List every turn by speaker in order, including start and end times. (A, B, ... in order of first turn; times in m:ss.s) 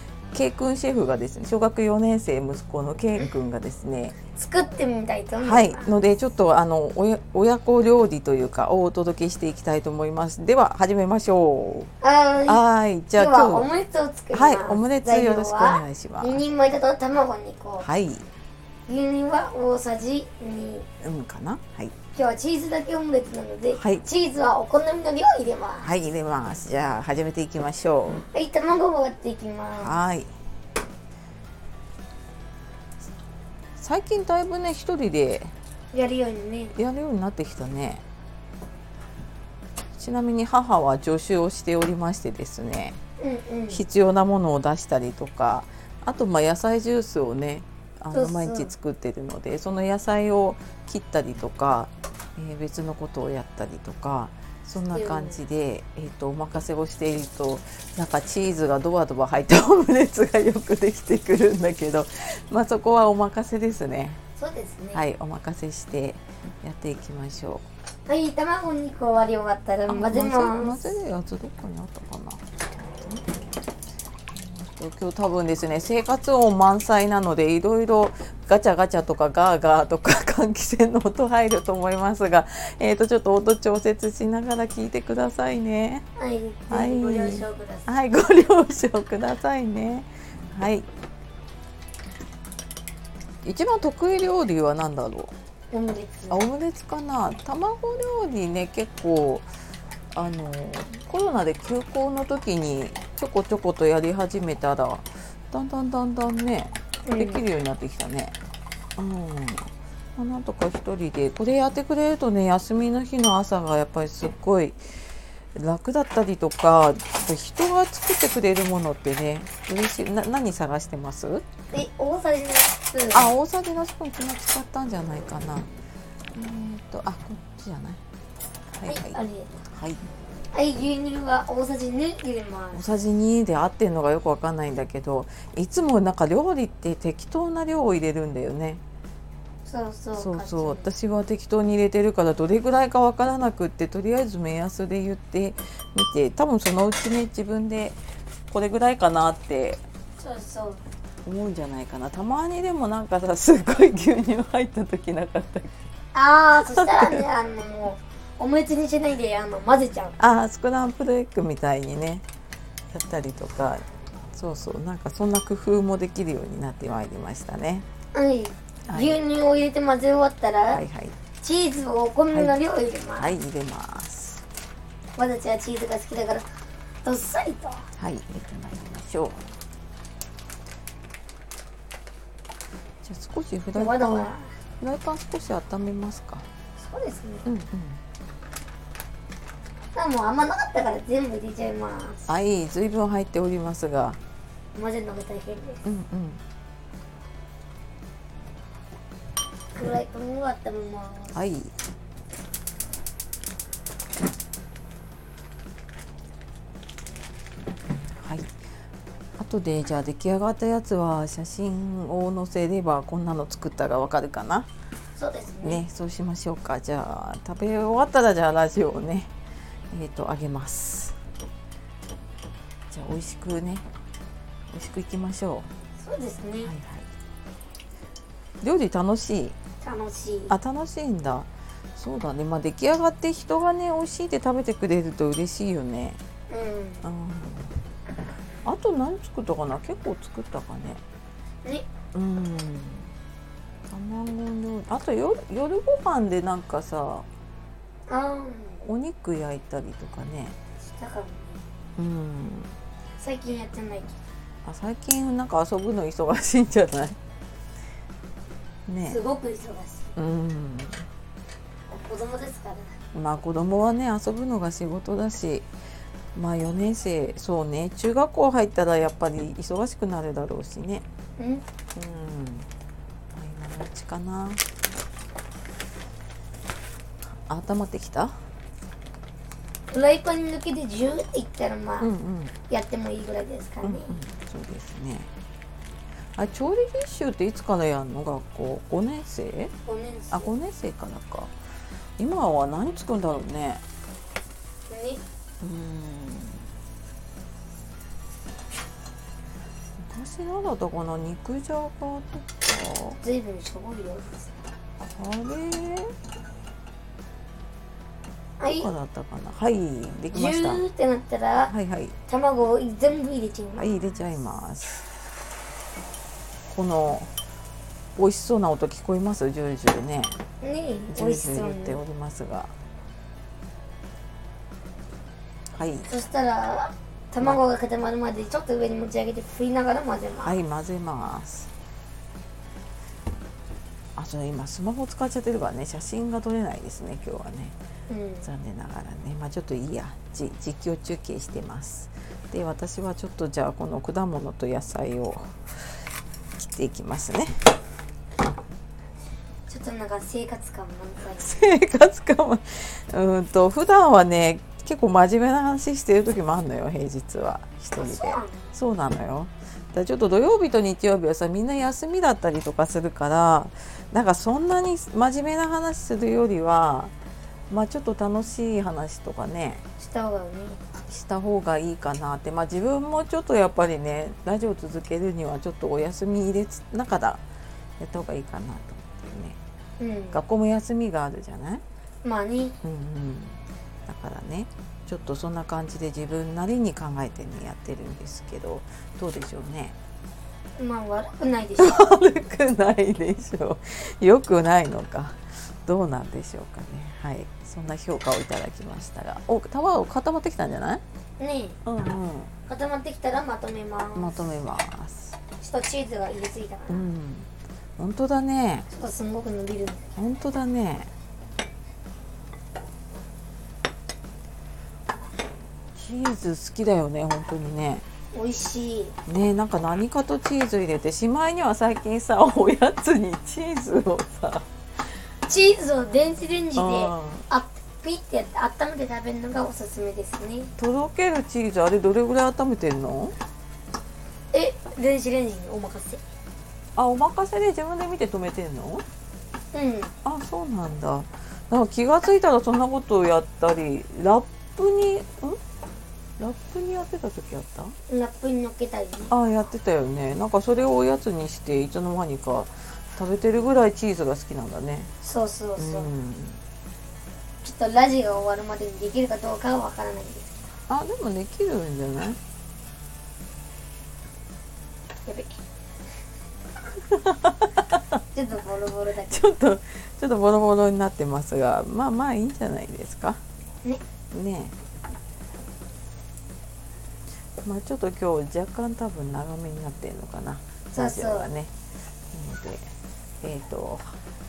0:00.3-0:04.2 A
0:04.3-0:05.9 B
0:05.4-0:11.9 A
0:12.0-0:12.6 B
0:12.5-0:13.7 A
0:13.2-0:17.9 B
0:14.3-0:16.4 A
0:17.8-0:18.3 A
0:18.9-0:20.9 B
0:21.0-0:22.0 A
0:22.2-0:25.9 B
0:23.7-0:24.1 A
0:25.8-0:28.2 A
0:28.3-0:29.9 B
0:29.8-0:30.3 A
0:33.8-0:35.5 A
0:35.9-0:36.8 B
0:36.8-0:38.0 A
0:40.0-0:43.0 A
0:43.2-0:43.8 B
0:43.7-1:04.2 A
0:48.1-0:48.7 B
0:54.9-0:55.4 B
1:04.4-1:05.0 B
1:04.9-1:07.6 A
1:08.1-1:11.0 B
1:09.9-1:12.4 A
1:14.3-1:26.1 A
1:26.2-1:28.0 B
1:26.7-1:30.9 A
1:33.4-1:35.3 A
1:35.7-1:36.4 B
1:36.3-1:39.5 A
1:40.1-1:48.4 A
1:47.1-1:47.4 B
1:49.0-1:54.8 A
1:55.6-2:01.5 A
2:01.7-2:03.3 B
2:03.1-2:05.7 A
2:06.4-2:08.0 A
2:08.7-2:10.0 A
2:08.9-2:09.5 B
2:10.5-2:13.1 B
2:12.7-2:18.8 A
2:19.6-2:20.9 B
2:20.2-2:28.0 A
2:28.5-2:29.8 A
2:30.2-2:30.8 B
2:31.2-2:35.7 A
2:36.1-2:40.2 B
2:36.7-2:37.3 A
2:40.2-2:42.2 A
2:42.9-2:47.9 A
2:48.1-2:50.8 B
2:48.9-2:49.2 A
2:50.7-2:51.2 A
2:51.4-2:53.4 B
2:52.3-2:52.6 A
2:53.2-2:54.4 A
2:55.2-2:56.5 B
2:57.0-2:57.9 B
2:58.0-2:59.4 A
3:03.0-3:06.5 A
3:03.8-3:04.6 B
3:06.8-3:07.4 B
3:07.5-3:08.0 A
3:10.0-3:12.3 B
3:12.3-3:14.2 A
3:14.8-3:15.8 B
3:15.8-3:16.4 A
3:19.8-3:21.4 B
3:21.4-3:21.7 A
3:28.0-3:28.6 A
3:29.4-3:34.7 A
3:35.2-3:35.8 B
3:35.6-3:39.3 A
3:39.9-3:41.2 A
3:42.9-3:43.8 A
3:44.7-3:45.7 A
3:46.0-3:46.7 B
3:46.6-3:47.1 A
3:48.6-3:49.6 A
3:49.8-3:50.6 B
3:50.5-3:56.2 A
3:56.5-3:57.1 B
3:57.0-3:57.8 A
3:58.6-4:01.0 A
4:02.1-4:03.1 A
4:03.9-4:07.3 A
4:08.1-4:08.8 B
4:08.8-4:10.6 A
4:10.8-4:11.6 B
4:12.0-4:12.8 A
4:13.2-4:14.2 B
4:14.6-4:17.2 A
4:18.9-4:19.2 A
4:19.1-4:20.1 B
4:20.2-4:21.1 A
4:21.9-4:23.0 B
4:23.1-4:25.7 A
4:26.4-4:31.1 A
4:31.4-4:31.6 B
4:32.0-4:32.7 A
4:33.3-4:34.6 A
4:37.2-4:38.4 A
4:39.9-4:42.1 B
4:42.0-4:42.5 A
4:42.7-4:44.2 B
4:43.8-4:45.3 A
4:46.4-4:49.7 A
4:49.9-4:50.5 B
4:50.3-4:51.5 A
4:52.2-4:53.8 A
4:54.9-4:55.2 B
4:55.6-4:56.7 A
5:00.0-5:03.2 A
5:03.2-5:04.6 B
5:05.0-5:06.1 A
5:08.6-5:08.9 B
5:08.7-5:10.8 A
5:10.3-5:11.7 B
5:11.7-5:12.2 A
5:12.3-5:14.0 B
5:13.8-5:15.0 A
5:16.7-5:17.3 A
5:18.2-5:20.4 A
5:20.6-5:22.0 B
5:21.1-5:22.7 A
5:25.7-5:26.1 A
5:26.1-5:30.6 B
5:30.4-5:31.7 A
5:34.2-5:37.8 A
5:38.1-5:38.5 B
5:38.4-5:45.6 A
5:46.6-5:47.6 A
5:49.7-5:51.6 B
5:51.4-6:07.1 A
5:58.0-5:58.6 B
6:07.7-6:09.8 A
6:10.0-6:10.8 B
6:11.1-6:17.4 A
6:18.0-6:19.6 A
6:20.0-6:20.4 B
6:20.3-6:21.8 A
6:22.2-6:22.8 B
6:22.8-6:30.0 A
6:30.8-6:32.1 B
6:31.8-6:41.0 A
6:41.4-6:41.8 B
6:41.8-6:42.5 A
6:42.7-6:44.5 B
6:44.2-6:45.4 A
6:45.6-6:47.0 B
6:46.9-6:48.9 A
6:48.9-6:50.1 B
6:50.2-6:51.1 A
6:56.0-6:58.0 A
6:58.3-6:59.2 B
6:59.3-7:04.7 A
7:05.5-7:10.7 B
7:06.8-7:07.4 A
7:10.8-7:13.4 A
7:14.5-7:16.2 B
7:17.0-7:19.0 A
7:19.7-7:20.1 B
7:20.2-7:25.6 A
7:26.4-7:28.0 A
7:28.1-7:29.3 B
7:29.3-7:35.1 A
7:35.2-7:36.1 B
7:35.8-7:36.6 A
7:37.6-7:40.5 B
7:40.9-7:42.4 A
7:45.3-7:45.6 B
7:47.1-7:48.0 A
7:48.3-7:49.5 B
7:49.3-7:53.4 A
7:54.3-7:54.8 A
7:57.6-8:01.7 A
8:00.9-8:01.5 B
8:02.3-8:02.9 A
8:03.4-8:04.2 A